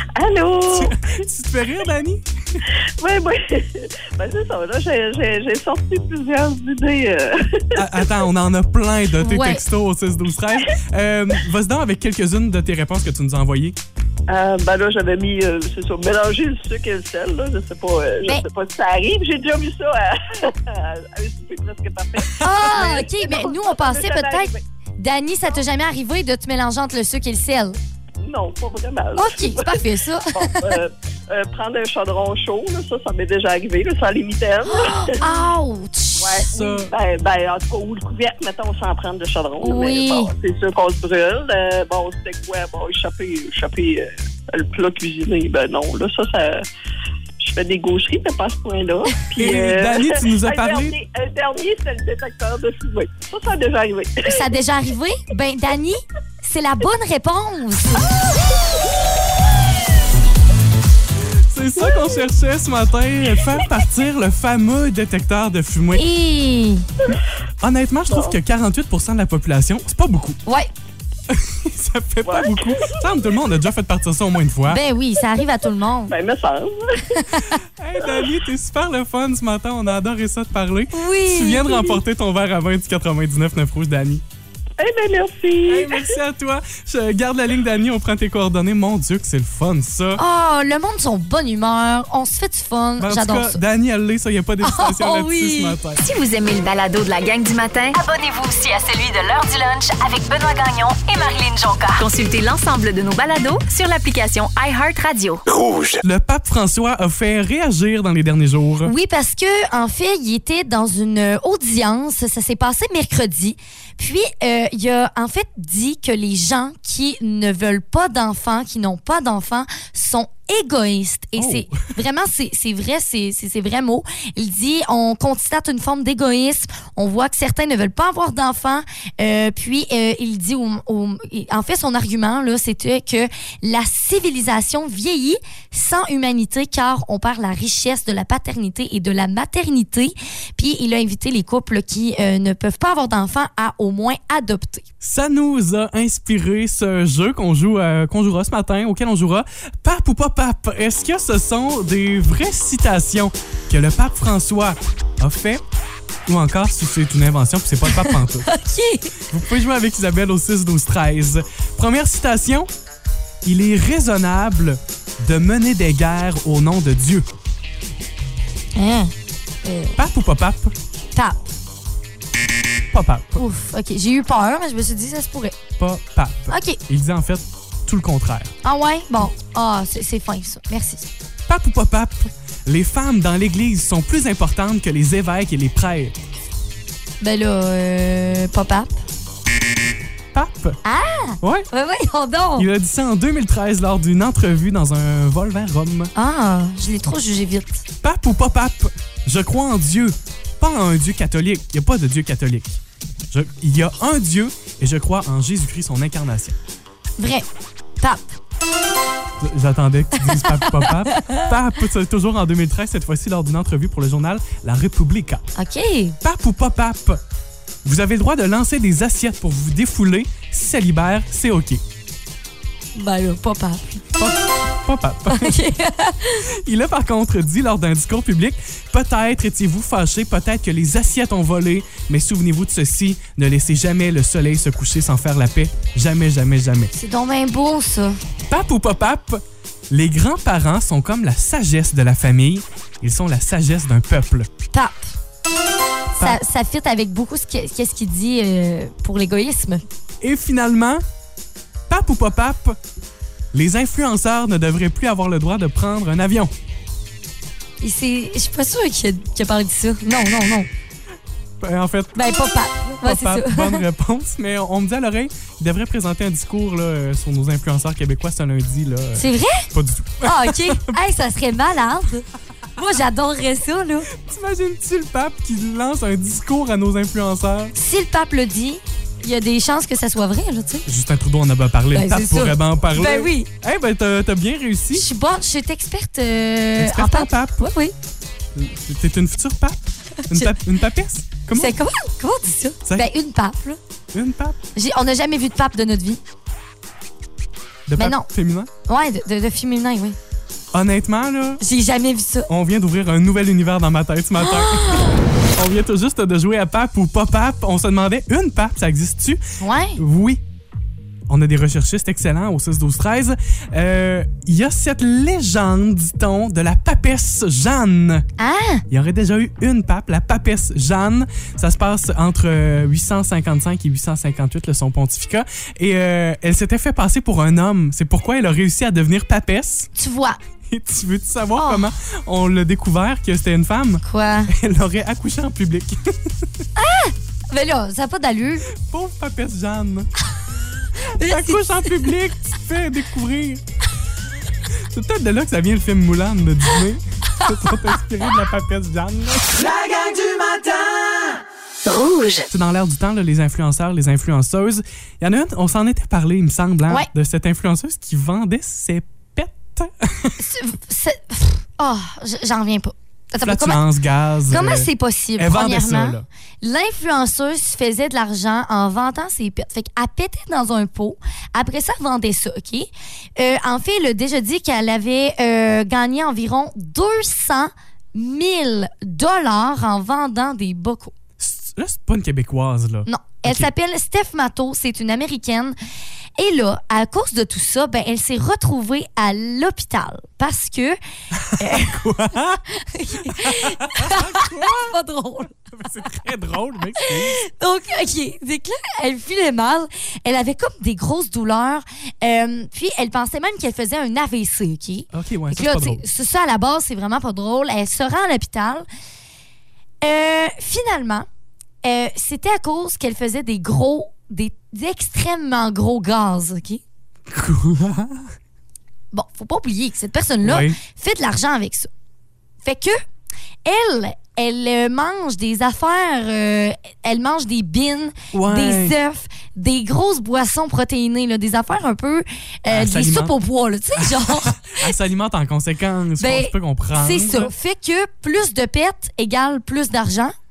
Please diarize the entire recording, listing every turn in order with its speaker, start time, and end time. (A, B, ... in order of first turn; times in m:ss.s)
0:00.1-0:01.0 A
0:00.7-0:02.6 B
0:03.0-0:07.8 A
0:07.7-0:13.8 B
0:09.2-0:09.6 C
0:14.3-0:24.6 A
0:22.4-0:27.8 C
0:28.2-0:29.8 A
0:29.2-0:30.7 C
0:30.3-0:35.3 A
0:34.6-0:36.5 C
0:36.2-0:46.6 A
0:36.5-0:36.9 B
0:39.6-0:40.3 C
0:47.4-0:54.4 A
0:49.4-0:51.0 B
0:54.2-0:58.1 C
1:01.5-1:06.0 B
1:06.0-1:06.8 C
1:07.6-1:10.4 B
1:11.3-1:14.8 B
1:12.2-1:13.0 A
1:14.7-1:16.1 C
1:16.1-1:17.2 A
1:17.1-1:17.6 C
1:17.8-1:24.2 B
1:20.9-1:22.0 C
1:24.8-1:26.1 A
1:25.6-1:30.2 B
1:30.2-1:33.6 C
1:33.0-1:36.0 B
1:34.6-1:35.8 C
1:36.0-1:45.4 D
1:45.5-1:46.0 E
1:46.0-1:48.9 B
1:48.8-2:24.9 C
2:01.4-2:01.8 B
2:25.0-2:35.6 B
2:36.2-2:38.5 B
2:37.9-2:39.2 C
2:39.3-2:42.7 B
2:43.4-2:47.2 B
2:48.8-2:49.1 C
2:49.6-2:50.0 C
2:50.0-2:50.7 B
2:51.1-2:51.5 C
2:52.9-2:53.4 B
2:53.4-2:55.6 C
2:55.8-2:58.5 B
2:56.5-2:56.8 C
2:58.6-3:01.0 C
3:01.5-3:06.2 B
3:07.2-3:09.0 C
3:10.3-3:10.8 B
3:10.8-3:12.7 C
3:11.4-3:11.7 B
3:12.6-3:16.1 B
3:16.1-3:17.8 C
3:18.0-3:22.8 B
3:23.3-3:26.6 B
3:27.2-3:27.4 C
3:28.0-3:28.3 C
3:29.4-3:35.5 B
3:30.2-3:31.5 C
3:35.6-3:36.2 C
3:36.2-3:37.2 B
3:37.8-3:41.8 B
3:43.0-3:44.2 C
3:44.2-3:45.6 B
3:45.3-3:46.5 C
3:46.5-3:56.9 B
3:56.9-3:58.2 C
3:58.5-4:04.5 B
4:04.7-4:05.1 C
4:06.2-4:09.8 C
4:10.2-4:11.0 B
4:11.9-4:12.8 B
4:13.5-4:16.5 B
4:17.8-4:20.7 C
4:21.6-4:22.4 B
4:22.2-4:23.8 C
4:23.0-4:31.0 B
4:29.2-4:29.7 C
4:30.2-4:34.1 C
4:34.1-4:37.7 B
4:37.7-4:40.9 C
4:40.8-4:45.1 B
4:41.9-4:43.5 C
4:44.9-4:47.9 C
4:46.8-4:47.6 B
4:48.5-4:51.8 B
4:50.2-4:50.6 C
4:51.5-4:53.8 C
4:54.1-4:54.6 B
4:54.8-4:56.2 C
4:57.9-4:58.7 B
4:58.0-4:58.3 C
4:58.9-5:00.2 C
5:00.7-5:01.6 B
5:01.6-5:02.5 C
5:02.5-5:09.4 B
5:04.4-5:05.2 C
5:09.6-5:10.0 C
5:10.0-5:10.4 B
5:11.3-5:18.3 B
5:18.4-5:18.8 C
5:18.9-5:29.9 B
5:29.9-5:30.4 C
5:30.7-5:36.5 B
5:31.6-5:31.9 C
5:34.0-5:34.5 C
5:36.8-5:38.7 C
5:38.7-5:40.1 B
5:41.0-5:43.6 B
5:41.1-5:42.1 C
5:44.7-5:49.6 B
5:47.4-5:47.7 C
5:49.5-5:51.4 E
5:51.8-5:52.4 D
5:52.5-6:00.4 B
6:00.4-6:03.8 C
6:03.4-6:06.2 B
6:04.5-6:21.1 C
6:21.4-6:23.7 B
6:23.0-6:25.7 C
6:26.4-6:31.0 C
6:31.3-6:32.6 B
6:31.6-6:32.0 C
6:32.7-6:35.6 C
6:33.2-6:35.0 B
6:35.5-6:37.4 B
6:37.0-6:48.8 C
6:45.1-6:46.0 B
6:50.0-6:51.3 C
6:51.8-6:56.8 C
6:57.3-6:58.3 B
6:59.1-7:01.9 C
7:00.4-7:00.8 B
7:02.6-7:03.0 C
7:03.6-7:14.9 C
7:08.3-7:09.0 B
7:12.7-7:13.3 B
7:14.0-7:17.5 B
7:16.2-7:20.3 C